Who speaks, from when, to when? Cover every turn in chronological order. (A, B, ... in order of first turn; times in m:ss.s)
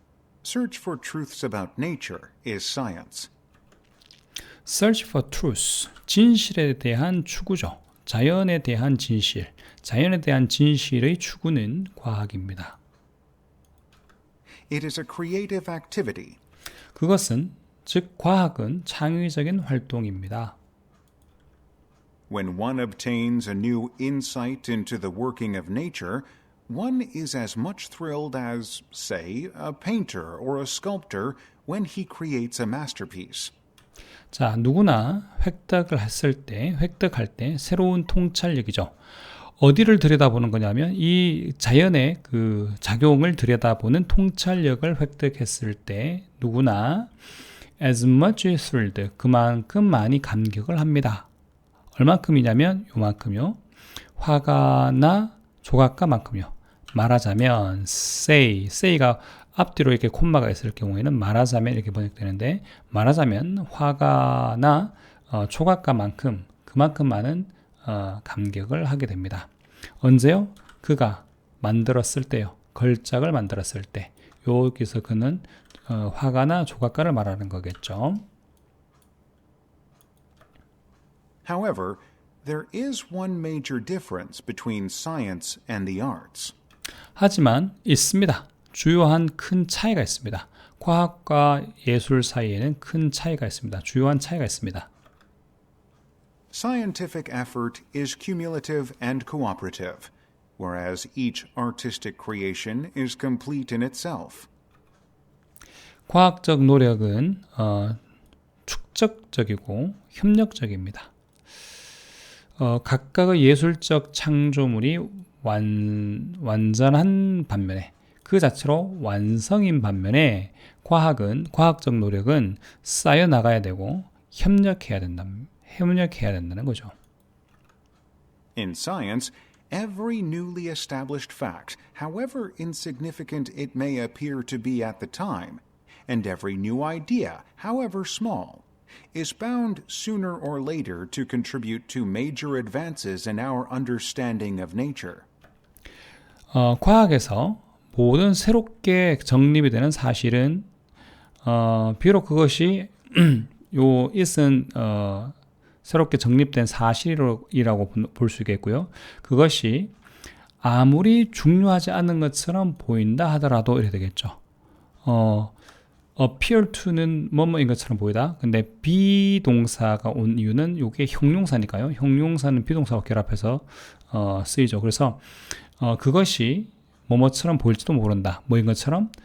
0:00.4-0:03.3 A
0:04.6-0:12.8 B
0:14.7-0:16.4 A
0:17.0-0:20.6 B
0:22.3-0:33.5 A
0:34.3-0:39.0 B
0:39.6-0:47.1 B
0:47.8-0:51.3 B
0:52.0-0:53.6 B
0:54.2-1:09.5 B
1:10.0-1:18.3 B
1:21.4-1:26.5 A
1:27.2-1:34.9 B
1:36.5-1:44.5 A
1:46.1-1:48.0 B
1:48.7-1:51.1 B
1:52.6-2:06.9 B
2:08.6-2:25.3 A
2:26.5-2:30.7 B
2:31.4-2:39.9 B
2:40.6-2:44.4 B
2:45.0-2:45.5 B
2:46.2-2:59.1 B